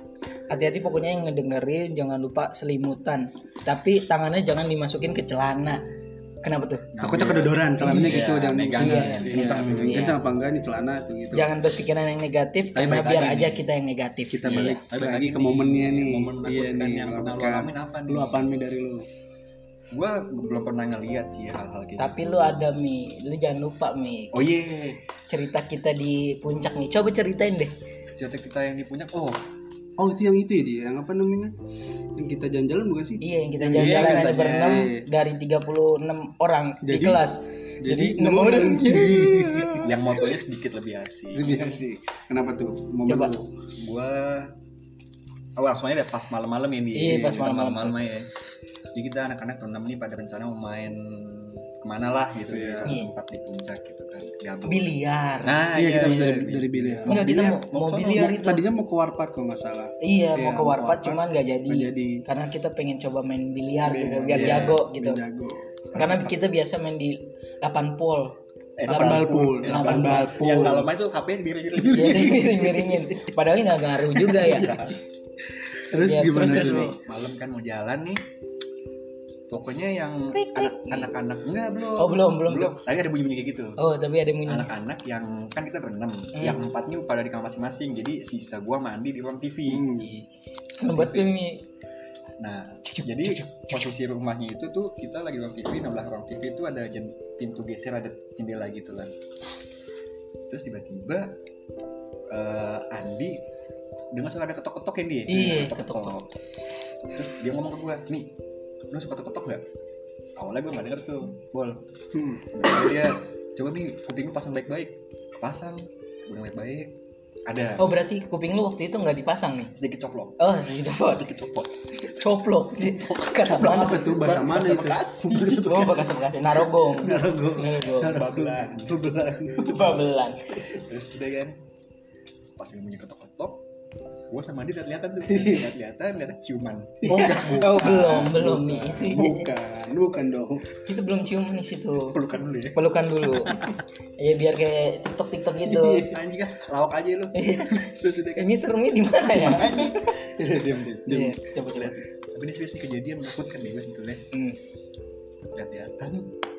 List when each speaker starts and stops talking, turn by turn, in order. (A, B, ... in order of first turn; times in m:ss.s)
0:00.5-0:05.8 A
0:06.4-0:06.9 A
0:06.9-0:10.1 B
0:07.0-0:11.5 C
0:07.8-0:08.2 A
0:08.7-0:10.2 A
0:11.3-0:14.8 A
0:12.7-0:13.6 C
0:14.3-0:19.0 C
0:14.5-0:18.5 B
0:19.9-0:22.6 B
0:22.0-0:24.4 A
0:24.3-0:25.0 B
0:25.3-0:27.7 A
0:28.2-0:29.4 B
0:30.0-0:31.5 C
0:32.2-0:35.0 C
0:33.2-0:39.9 A
0:33.7-0:34.9 B
0:36.8-0:37.2 C
0:37.8-0:39.9 C
0:39.8-0:41.6 B
0:41.3-0:43.5 C
0:41.5-0:41.7 A
0:43.1-0:43.3 A
0:43.8-0:44.5 B
0:45.6-0:48.3 B
0:46.9-0:48.0 A
0:47.1-0:47.4 C
0:48.9-0:58.3 B
0:52.5-0:52.9 C
0:54.6-0:55.7 A
0:55.7-1:02.2 C
0:57.1-0:58.6 A
1:00.0-1:05.2 A
1:03.8-1:04.8 B
1:04.3-1:06.2 C
1:05.9-1:08.4 A
1:08.8-1:12.4 B
1:08.9-1:10.9 C
1:08.9-1:10.6 A
1:11.7-1:13.2 C
1:11.9-1:14.8 A
1:14.2-1:14.5 C
1:14.2-1:15.0 B
1:15.6-1:16.9 C
1:15.9-1:17.0 A
1:16.3-1:18.2 B
1:19.5-1:23.8 B
1:20.3-1:21.1 A
1:22.0-1:22.8 A
1:23.8-1:24.7 A
1:24.4-1:29.9 B
1:26.3-1:26.6 A
1:29.7-1:30.1 C
1:30.0-1:31.6 A
1:30.9-1:31.2 B
1:32.4-1:39.1 B
1:32.9-1:33.8 A
1:40.5-1:41.3 B
1:42.3-1:43.4 B
1:44.1-1:46.3 B
1:45.3-1:46.1 A
1:47.1-1:48.3 B
1:48.9-1:49.6 B
1:50.4-1:51.8 B
1:52.1-1:52.5 C
1:52.5-1:56.9 B
1:57.5-1:57.8 B
1:57.8-1:59.7 A
1:59.8-2:01.7 B
2:00.4-2:01.3 A
2:02.0-2:04.5 A
2:03.0-2:06.2 B
2:03.5-2:05.9 C
2:05.6-2:08.2 A
2:07.0-2:10.0 C
2:08.0-2:08.9 B
2:09.5-2:10.6 A
2:10.6-2:11.6 B
2:12.6-2:13.6 B
2:14.3-2:17.4 B
2:15.2-2:15.7 C
2:17.0-2:20.7 C
2:17.1-2:19.5 A
2:20.8-2:22.2 A
2:22.1-2:23.8 B
2:22.7-2:23.6 A
2:24.2-2:26.1 A
2:25.6-2:26.2 C
2:26.1-2:28.6 B
2:27.3-2:30.0 A
2:29.3-2:30.3 B
2:30.2-2:31.4 C
2:31.0-2:32.0 A
2:31.7-2:34.2 B
2:34.3-2:34.6 A
2:35.5-2:36.3 B